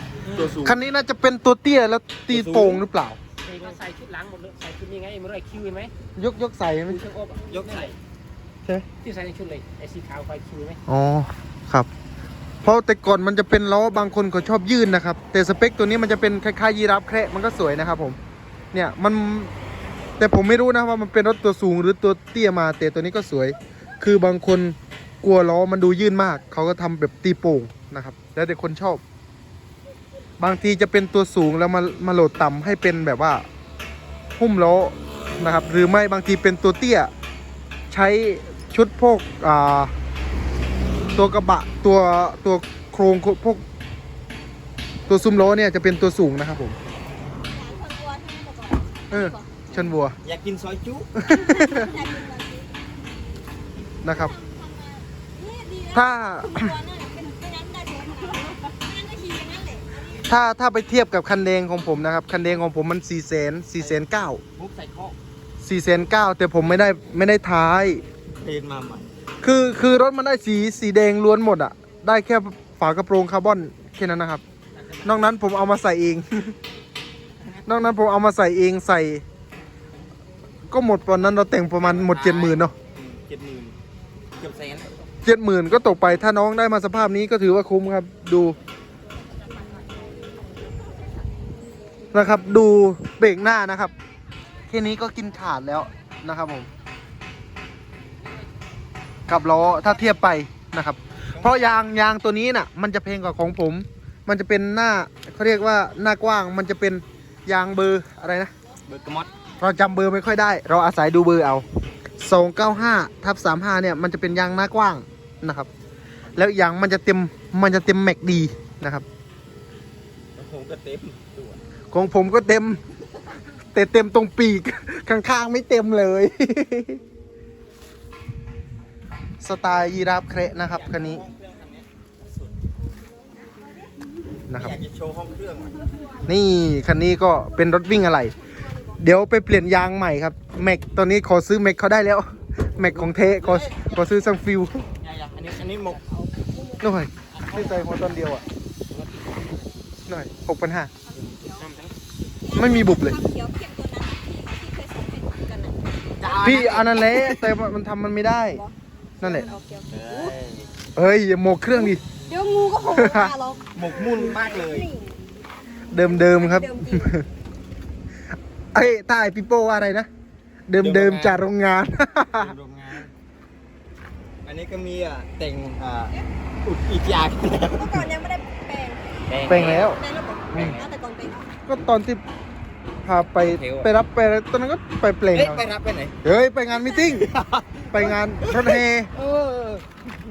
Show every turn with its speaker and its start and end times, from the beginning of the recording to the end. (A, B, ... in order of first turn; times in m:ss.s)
0:00.2-0:00.8 A
0:00.6-0:03.2 B
0:02.3-0:02.8 A
0:03.4-0:05.9 C
0:06.2-0:07.0 B
0:06.9-0:08.0 C
0:07.5-0:08.0 A
0:09.0-0:10.8 C
0:10.9-0:11.9 B
0:12.6-0:18.2 B
0:18.7-0:19.5 B
0:20.2-0:29.0 B
0:30.4-0:33.5 B
0:34.4-0:37.1 B
0:37.9-0:39.9 B
0:41.2-0:43.6 B
0:45.0-0:45.5 D
0:45.1-0:46.8 B
0:47.4-0:49.6 D
0:49.1-0:50.2 B
0:49.7-0:51.1 A
0:51.2-0:51.9 B
0:51.2-0:53.0 D
0:54.0-0:54.3 B
0:54.0-1:00.3 D
0:55.9-0:56.8 B
1:00.2-1:04.4 B
1:04.6-1:05.2 A
1:05.6-1:08.0 B
1:08.4-1:09.1 A
1:09.4-1:14.4 B
1:14.8-1:15.2 A
1:15.0-1:16.6 B
1:17.7-1:19.2 B
1:20.7-1:22.7 B
1:21.6-1:23.8 A
1:24.4-1:24.9 A
1:25.2-1:28.6 B
1:29.4-1:30.2 C
1:32.1-1:33.9 B
1:34.7-1:36.7 B
1:39.3-1:48.5 B
1:41.3-1:41.9 A
1:48.9-1:49.3 A
1:49.6-1:51.7 B
1:52.2-1:55.7 B
1:56.4-1:59.0 B
2:00.4-2:01.6 A
2:01.9-2:02.8 B
2:03.7-2:07.0 B
2:09.4-2:11.2 B
2:10.6-2:12.6 A
2:13.4-2:13.8 D
2:14.5-2:14.8 B
2:14.5-2:16.1 A
2:16.3-2:18.4 B
2:18.3-2:19.0 D
2:19.0-2:24.9 B
2:22.8-2:24.3 A
2:25.0-2:26.0 A
2:25.8-2:26.2 C
2:26.5-2:26.9 D
2:26.8-2:28.4 B
2:28.9-2:29.7 C
2:30.1-2:30.9 B
2:31.0-2:31.7 D
2:31.6-2:31.9 C
2:32.4-2:37.4 D
2:32.6-2:33.2 B
2:36.2-2:37.4 A
2:36.4-2:38.6 B
2:38.5-2:40.4 D
2:39.2-2:39.5 B
2:39.9-2:40.7 A
2:41.0-2:42.0 B
2:41.7-2:45.2 D
2:42.9-2:43.3 B
2:43.8-2:44.9 A
2:45.9-2:47.2 B
2:45.9-2:47.2 D
2:48.7-2:50.1 B
2:50.7-2:52.6 B
2:50.8-2:51.4 A
2:52.4-2:53.1 A
2:54.4-2:58.1 A
2:57.6-3:01.5 D
2:59.3-3:00.0 A
2:59.5-3:00.0 B
3:00.5-3:00.8 A
3:01.7-3:02.2 B
3:03.0-3:05.7 B
3:03.3-3:03.9 A
3:05.3-3:06.2 A
3:06.2-3:07.3 B
3:06.7-3:07.2 D
3:07.2-3:10.0 A
3:07.9-3:09.1 B